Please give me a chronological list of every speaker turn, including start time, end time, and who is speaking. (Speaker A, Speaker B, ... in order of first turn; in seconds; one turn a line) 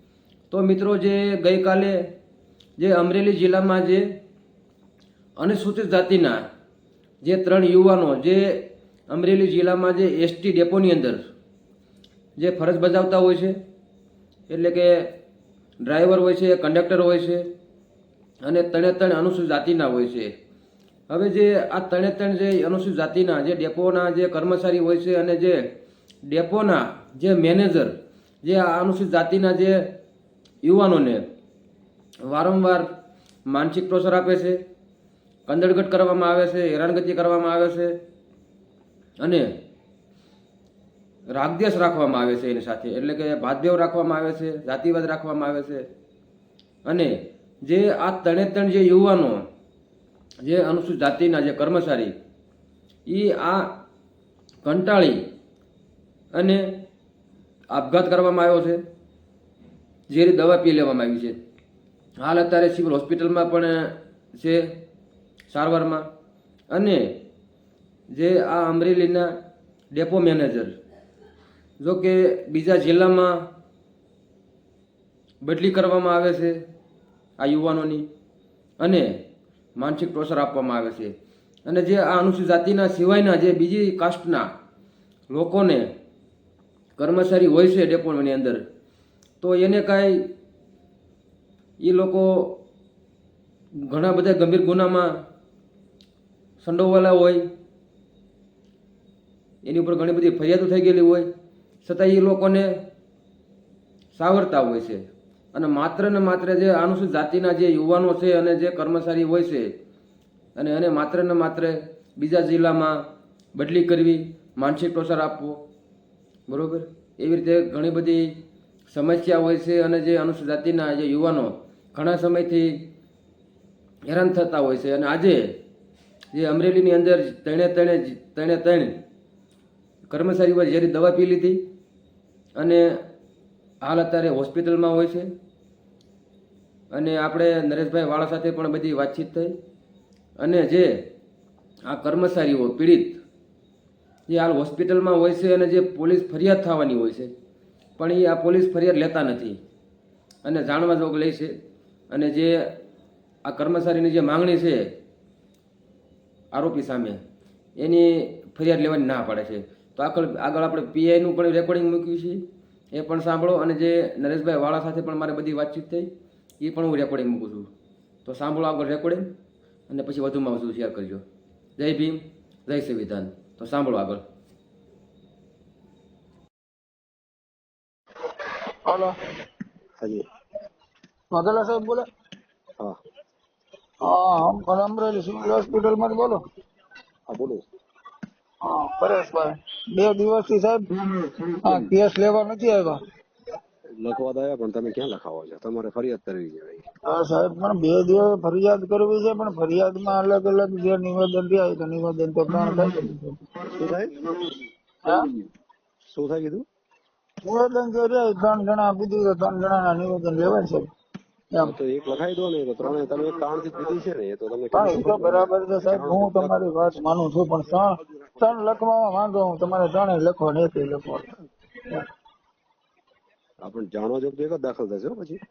Speaker A: 0.6-1.9
Speaker A: 2.8-4.0
Speaker A: 5.6-6.3
Speaker A: 7.2-8.4
Speaker A: 9.2-11.2
Speaker A: 12.4-13.5
Speaker A: 14.5-14.9
Speaker A: 15.9-17.4
Speaker A: 18.5-20.3
Speaker A: 21.2-25.6
Speaker A: 26.3-27.9
Speaker A: 28.5-29.8
Speaker A: 30.7-31.2
Speaker A: 32.3-32.9
Speaker A: 33.5-34.6
Speaker A: 35.5-37.9
Speaker A: 41.4-45.8
Speaker A: 47.7-49.4
Speaker A: 50.5-52.1
Speaker A: 53.1-53.6
Speaker A: 54.7-55.1
Speaker A: 57.8-58.8
Speaker A: 60.2-61.3
Speaker A: 62.4-63.7
Speaker A: 65.5-66.0
Speaker A: 68.2-69.2
Speaker A: 70.0-70.7
Speaker A: 71.9-73.3
Speaker A: 75.5-76.5
Speaker A: 77.5-78.0
Speaker A: 79.9-81.1
Speaker A: 81.7-84.4
Speaker A: 85.3-85.8
Speaker A: 87.0-88.6
Speaker A: 89.5-90.1
Speaker A: 91.9-92.2
Speaker A: 93.9-95.0
Speaker A: 96.7-97.4
Speaker A: 99.7-101.2
Speaker A: 101.9-102.7
Speaker A: 104.3-105.0
Speaker A: 105.6-109.6
Speaker A: 110.6-112.9
Speaker A: 113.6-114.2
Speaker A: 114.7-115.5
Speaker A: 116.5-118.2
Speaker A: 119.0-121.5
Speaker A: 122.0-122.7
Speaker A: 124.1-125.4
Speaker A: 126.4-128.9
Speaker A: 130.1-131.6
Speaker A: 133.9-135.2
Speaker A: 136.9-139.5
Speaker A: 140.4-140.9
Speaker A: 142.0-143.0
Speaker A: 144.3-147.3
Speaker A: 148.0-149.4
Speaker A: 150.7-151.5
Speaker A: 152.2-152.5
Speaker A: 153.5-154.8
Speaker A: 156.6-157.2
Speaker A: 157.8-158.0
Speaker A: 158.6-162.3
Speaker A: 163.0-166.0
Speaker A: 166.7-167.6
Speaker A: 168.4-169.2
Speaker A: 170.1-171.2
Speaker A: 172.8-174.2
Speaker B: 178.9-179.1
Speaker C: 180.0-180.2
Speaker B: 181.3-182.1
Speaker B: 184.0-186.4
Speaker C: 187.3-187.6
Speaker B: 188.6-190.9
Speaker B: 191.6-193.0
Speaker C: 194.0-196.8
Speaker B: 197.1-203.4
Speaker C: 203.8-204.3
Speaker C: 205.1-205.5
Speaker C: 206.1-206.7
Speaker B: 207.4-210.9
Speaker C: 211.6-216.6
Speaker B: 214.7-221.3
Speaker C: 218.1-218.5
Speaker C: 223.6-225.4